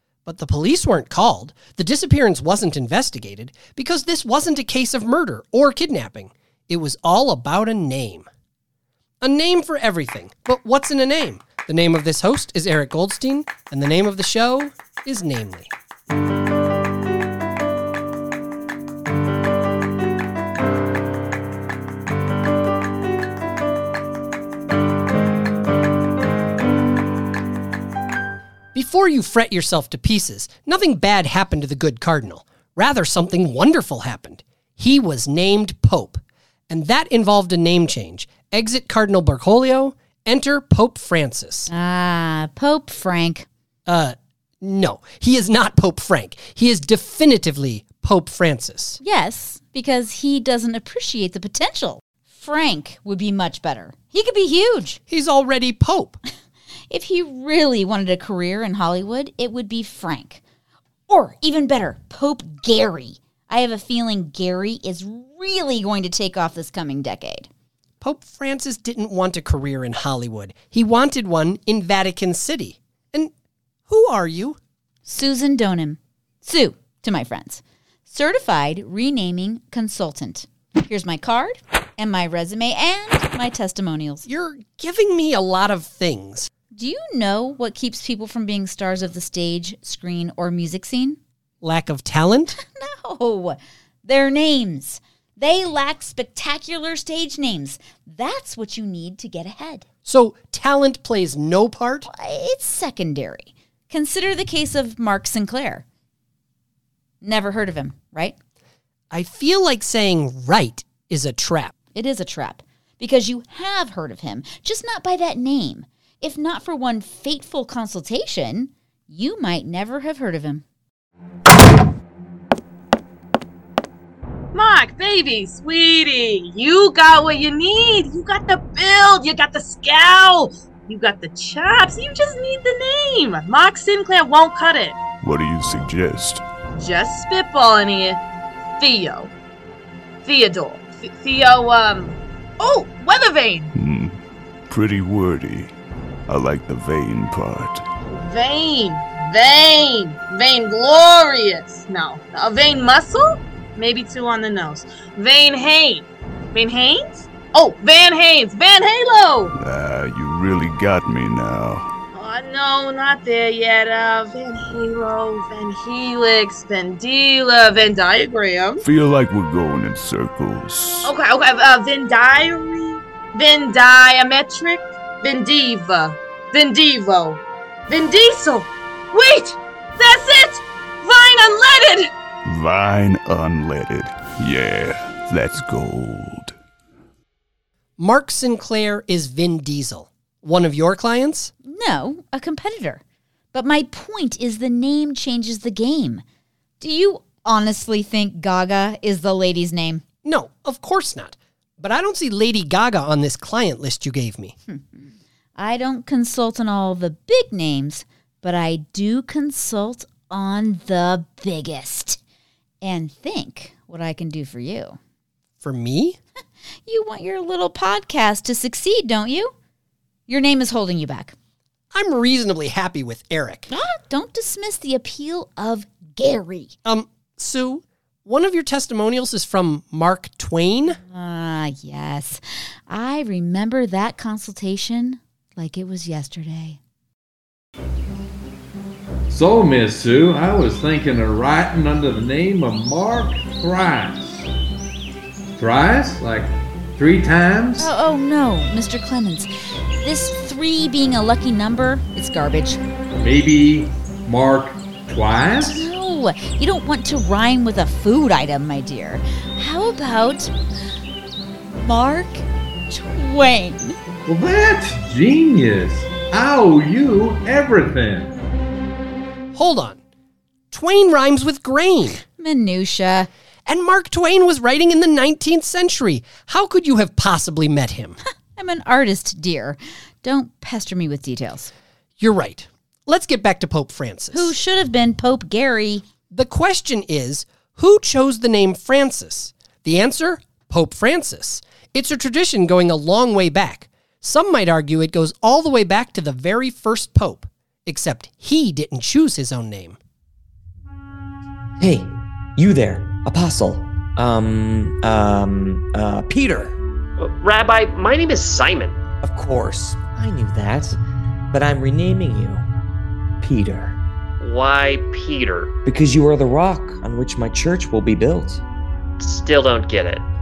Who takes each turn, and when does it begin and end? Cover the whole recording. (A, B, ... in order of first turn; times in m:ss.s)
0:00.2-0:08.2 A
0:09.2-0:15.7 A
0:28.7-0:41.7 A
0:41.7-0:43.5 B
0:43.8-0:49.0 A
0:49.0-0:55.0 B
0:55.1-0:56.2 A
0:56.9-1:00.4 B
1:01.1-1:07.5 B
1:08.0-1:13.3 A
1:13.9-1:14.6 A
1:15.0-1:24.2 B
1:24.2-1:26.5 A
1:26.7-1:31.2 B
1:31.6-1:32.6 A
1:32.6-1:39.8 B
1:40.0-1:42.1 A
1:42.1-1:45.8 B
1:47.2-1:48.4 B
1:49.1-1:51.7 A
1:51.9-2:00.6 B
2:04.5-2:15.0 C
2:15.2-2:16.4 D
2:16.8-2:18.2 C
2:18.8-2:19.3 C
2:20.2-2:23.7 C
2:23.7-2:24.2 D
2:24.7-2:25.7 D
2:26.3-2:27.8 D
2:28.1-2:39.5 C
2:39.5-2:41.9 D
2:42.1-2:48.8 C
2:48.8-2:51.1 D
2:51.0-3:02.1 C
3:02.4-3:06.5 D
3:08.0-3:11.5 A
3:11.6-3:13.0 B
3:13.5-3:16.2 B
3:16.8-3:20.0 B
3:20.2-3:24.6 A
3:24.7-3:32.2 B
3:32.8-3:35.0 B
3:35.6-3:36.2 A
3:36.8-3:39.5 B
3:40.3-3:41.3 B
3:41.9-3:43.7 A
3:43.7-3:46.7 B
3:46.8-3:51.0 A
3:51.1-3:56.8 B
3:59.3-4:04.5 E
4:05.6-4:07.9 E
4:07.8-4:12.8 B
4:13.2-4:15.9 E
4:15.6-4:20.5 B
4:21.8-4:24.0 B
4:24.2-4:28.3 E
4:29.5-4:30.0 A
4:30.7-4:32.2 A
4:32.4-4:33.3 B
4:33.6-4:38.2 A
4:38.6-4:41.7 B
4:42.2-4:44.6 A
4:44.3-4:46.1 B
4:46.3-5:00.0 A
5:01.8-5:06.7 F
5:07.2-5:09.0 G
5:09.2-5:11.0 F
5:11.5-5:12.6 F
5:13.4-5:14.0 F
5:14.4-5:15.7 G
5:15.8-5:18.6 F
5:19.2-5:20.2 G